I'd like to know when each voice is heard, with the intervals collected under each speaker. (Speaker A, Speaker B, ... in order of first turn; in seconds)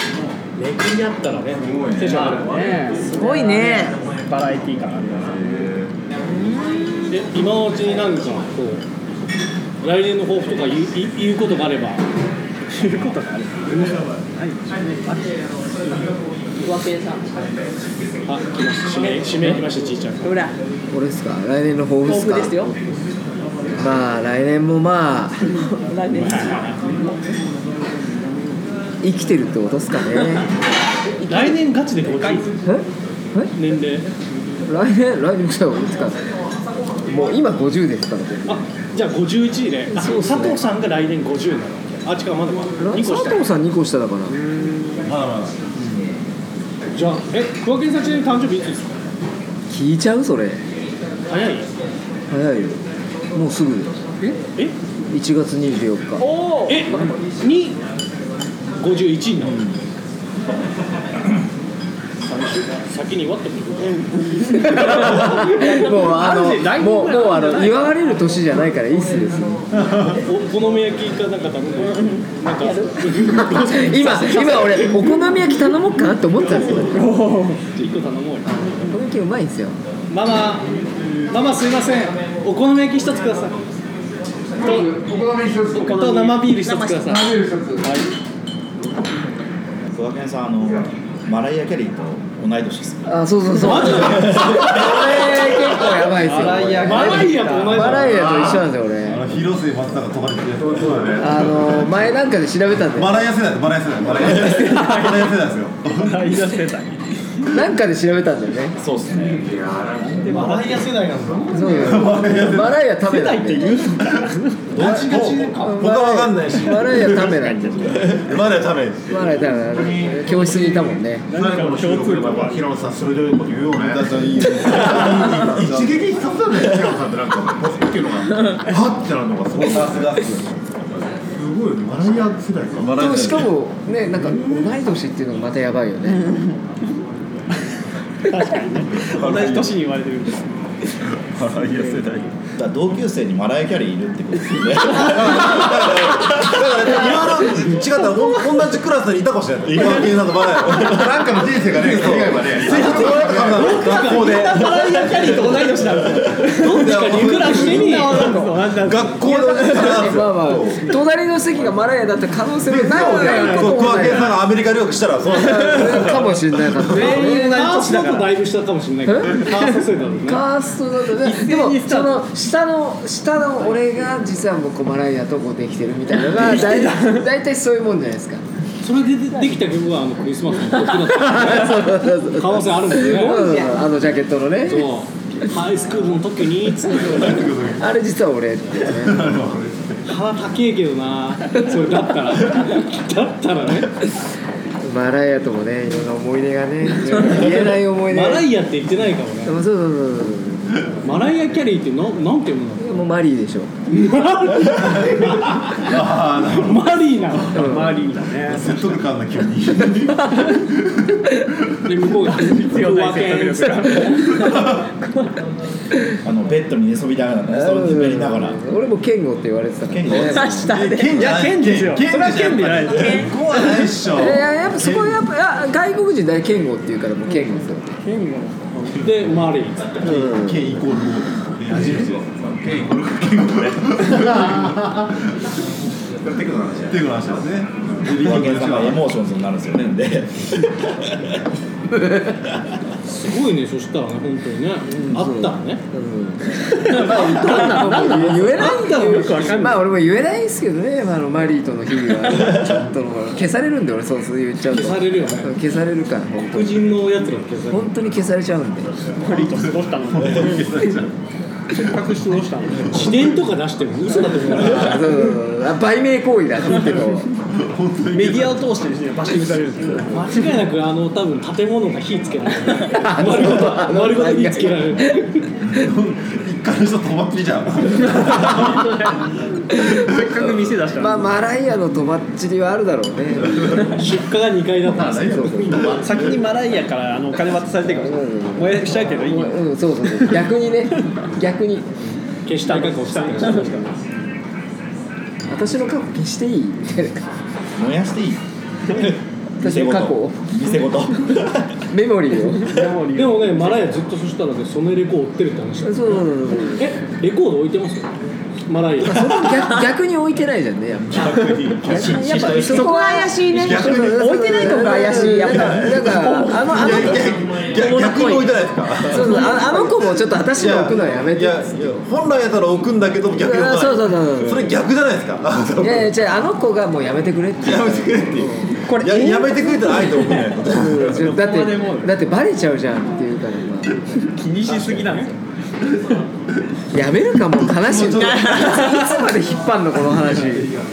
Speaker A: 0.6-2.6, 7.1-8.8, 9.8-12.0, 18.2-20.3, 26.2-26.5, 31.3-32.5, 33.5-34.0, 38.5-43.4, 46.9-48.9, 51.3-51.7, 54.3-54.7, 56.7-57.8, 58.8-59.6, 62.2-65.8, 70.1-74.8, 77.7-78.5, 80.1-80.6, 81.3-83.6, 84.6-84.9, 85.7-86.8, 93.6-95.4, 96.8-98.5, 110.3-112.0, 114.7-115.8, 152.7-154.4, 156.5-158.3, 167.0-170.4, 178.8-183.5, 184.6-187.4, 190.1-193.9, 197.4-199.6, 201.0-202.9, 203.9-207.7, 211.8-214.2, 228.9-230.1, 243.0-245.8, 247.0-249.7, 254.7-255.5, 256.4-257.9, 262.8-265.2, 270.1-275.4, 283.9-286.0, 292.4-293.9, 303.1-308.1, 308.7-309.5, 334.6-335.3
Speaker B: 1.6-2.3, 5.2-5.9, 45.0-45.5, 69.8-70.2, 99.0-101.9, 102.9-106.4, 111.7-112.8, 114.7-119.2, 123.7-126.0, 129.5-131.1, 132.8-133.5, 138.9-139.7, 141.0-142.3, 144.8-160.9, 162.7-167.1, 186.9-187.9, 188.8-190.0, 204.8-207.8, 208.4-211.5, 214.4-214.8, 220.7-225.2, 230.0-234.6, 236.9-239.1, 259.3-261.1, 267.5-268.6, 275.6-278.9, 311.1-312.9, 313.5-319.8, 320.5-326.1, 327.6-331.4, 337.8-338.8
Speaker C: 2.0-5.7, 12.7-16.1, 32.0-32.5, 65.5-67.9, 76.8-77.6, 84.6-84.9, 85.7-88.1, 96.0-98.2, 104.4-107.0, 110.0-111.0, 113.0-114.7, 117.2-117.7, 121.3-122.6, 138.2-140.5, 141.6-142.1, 152.7-160.2, 163.1-163.7, 166.9-168.3, 171.1-172.2, 176.6-177.2, 207.5-208.7, 212.4-214.3, 221.1-223.3, 228.0-229.2, 246.7-249.8, 259.1-260.8, 261.7-263.4, 268.1-270.4, 278.1-281.3, 285.8-290.4, 292.5-294.0, 302.6-303.8, 312.2-312.8, 331.2-332.1, 334.2-335.3
Speaker D: 3.1-3.9, 6.2-7.1, 16.6-17.3, 20.2-20.5, 22.0-22.7, 25.6-26.6, 31.2-31.5, 56.2-56.8, 63.8-64.8, 71.9-73.8, 86.6-87.3, 183.2-183.7, 214.2-215.3, 220.1-221.2, 222.9-223.3, 312.0-317.1, 317.7-318.5, 319.2-319.9, 328.9-330.3, 338.1-338.9
Speaker E: 20.9-22.6, 23.8-25.5, 29.0-30.5, 32.6-33.5, 34.7-36.2, 37.1-38.6, 39.9-40.6, 42.8-44.4, 49.7-50.6, 52.3-52.8, 53.3-53.9, 55.1-56.2, 64.5-69.6, 73.4-77.0, 78.5-79.8, 93.1-99.2, 101.2-103.2, 107.5-108.8, 111.5-113.9, 114.8-118.1, 119.1-121.3, 132.9-136.2, 159.5-164.4, 165.3-167.6, 169.0-169.5, 170.2-178.4, 181.1-184.9, 187.8-189.4, 194.8-198.5, 199.4-200.8, 202.8-203.7, 207.5-208.0, 217.5-220.7, 224.1-227.9, 230.0-230.7, 244.9-256.9, 257.7-258.9, 264.6-267.3, 272.9-275.2, 279.7-280.1, 281.0-284.0, 285.0-285.9, 287.8-291.9, 295.5-297.3, 299.6-300.4, 301.9-302.8, 305.8-306.8, 309.0-317.4, 319.1-321.9, 323.3-324.8, 325.8-328.7, 330.6-333.9, 336.9-340.7
Speaker F: 89.9-93.1, 108.9-109.4, 142.6-145.6, 216.2-218.6, 219.9-220.5, 238.2-240.6, 297.8-298.4, 299.6-301.5
Speaker G: 100.8-101.2, 119.7-120.6, 121.3-130.2, 131.3-132.9, 150.6-153.9, 231.7-235.1, 236.2-237.0, 284.9-286.0